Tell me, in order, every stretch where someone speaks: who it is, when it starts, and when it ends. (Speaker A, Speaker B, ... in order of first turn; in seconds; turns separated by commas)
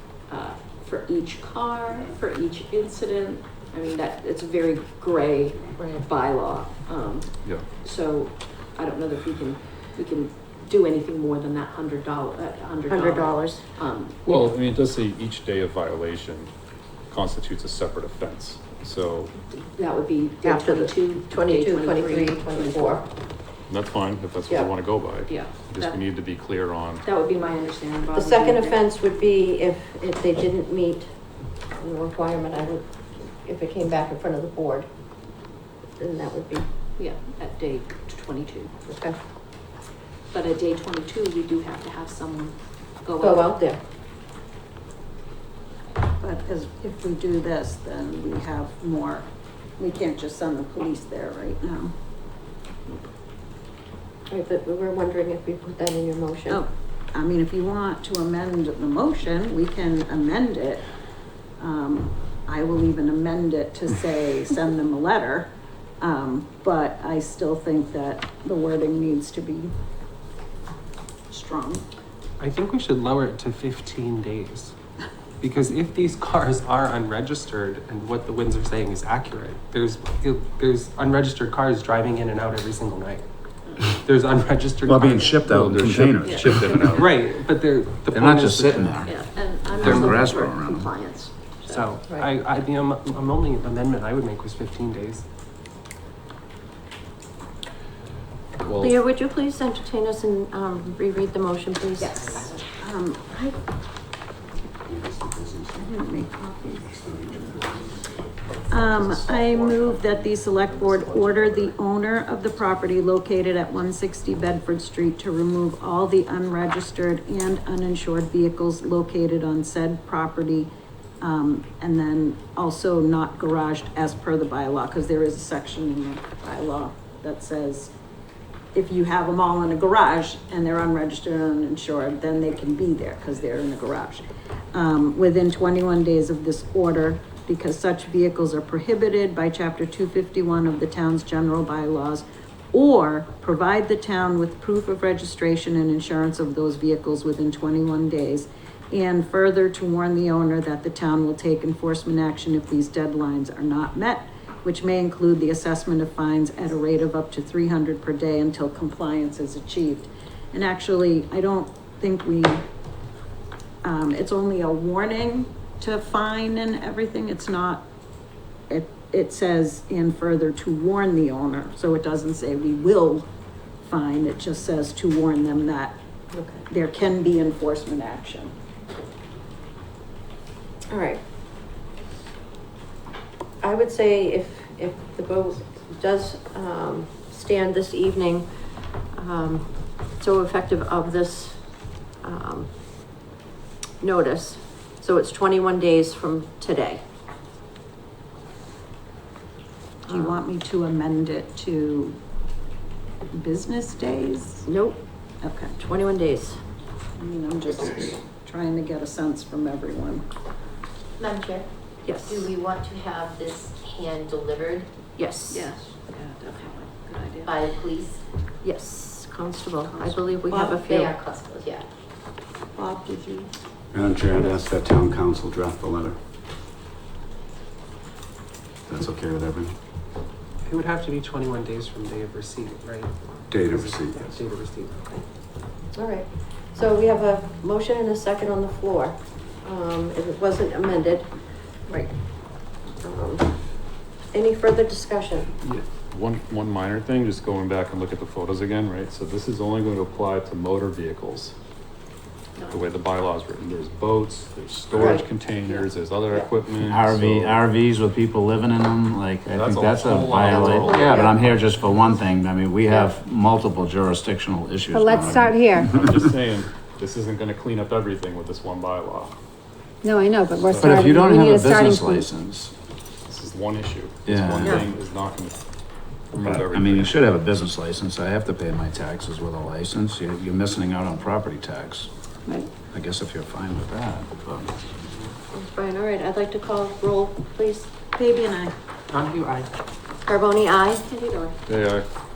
Speaker A: 0.3-14.4, Speaker B: 5.8-6.1, Speaker B: 12.9-13.6, Speaker C: 14.2-16.5, Speaker C: 17.1-19.3, Speaker A: 19.5-23.1, Speaker B: 20.4-23.1, Speaker C: 23.7-27.1, Speaker A: 25.3-26.0, Speaker A: 27.0-28.8, Speaker B: 28.1-31.1, Speaker B: 31.7-34.9, Speaker B: 36.0-36.7, Speaker A: 37.0-38.7, Speaker B: 38.9-39.2, Speaker A: 40.3-43.5, Speaker B: 43.2-43.8, Speaker D: 46.2-52.0, Speaker B: 54.3-56.6, Speaker D: 56.5-60.9, Speaker D: 61.6-69.7, Speaker D: 71.3-71.9, Speaker E: 72.4-74.7, Speaker E: 75.4-83.3, Speaker E: 83.8-85.9, Speaker F: 84.8-87.1, Speaker C: 85.5-87.2, Speaker E: 86.9-90.3, Speaker F: 88.1-90.9, Speaker A: 89.0-91.9, Speaker E: 91.7-95.2, Speaker C: 98.6-99.0, Speaker B: 98.8-102.5, Speaker D: 102.0-103.6, Speaker G: 104.8-105.9, Speaker D: 105.7-106.9, Speaker G: 106.8-108.1, Speaker D: 108.7-127.9, Speaker C: 108.8-109.2, Speaker G: 109.2-111.7, Speaker D: 128.7-162.7, Speaker D: 163.8-167.9, Speaker D: 168.7-173.3, Speaker D: 173.8-176.0, Speaker B: 176.3-176.6, Speaker D: 176.7-178.6, Speaker B: 180.9-181.2, Speaker B: 183.6-193.2, Speaker B: 194.0-197.0, Speaker D: 200.1-202.2, Speaker B: 200.1-200.4, Speaker D: 203.3-204.8, Speaker B: 204.7-205.0, Speaker D: 205.4-205.8, Speaker B: 205.8-206.6, Speaker D: 207.2-210.2, Speaker A: 212.1-212.5, Speaker H: 212.5-214.8, Speaker D: 212.9-214.4, Speaker B: 215.2-215.6, Speaker A: 215.5-217.8, Speaker H: 217.7-218.1, Speaker B: 218.6-221.2, Speaker A: 219.8-220.4, Speaker D: 220.5-221.2, Speaker D: 222.8-223.5, Speaker G: 223.9-226.2, Speaker G: 228.9-229.8, Speaker E: 230.7-235.2, Speaker G: 233.5-234.4, Speaker B: 235.9-241.3, Speaker B: 243.0-245.5, Speaker C: 245.6-251.6, Speaker C: 252.6-257.6, Speaker B: 254.9-255.3, Speaker F: 256.8-266.1, Speaker C: 259.5-261.5, Speaker B: 260.4-261.3, Speaker I: 264.9-265.9, Speaker C: 265.1-269.3, Speaker I: 270.0-272.3, Speaker F: 270.8-272.7, Speaker C: 273.3-275.6, Speaker F: 274.2-274.9, Speaker C: 276.3-277.3, Speaker F: 276.4-282.1, Speaker F: 282.9-284.8, Speaker B: 285.5-287.9, Speaker D: 288.1-288.7, Speaker E: 289.1-289.7, Speaker B: 290.2-291.2, Speaker C: 291.7-292.1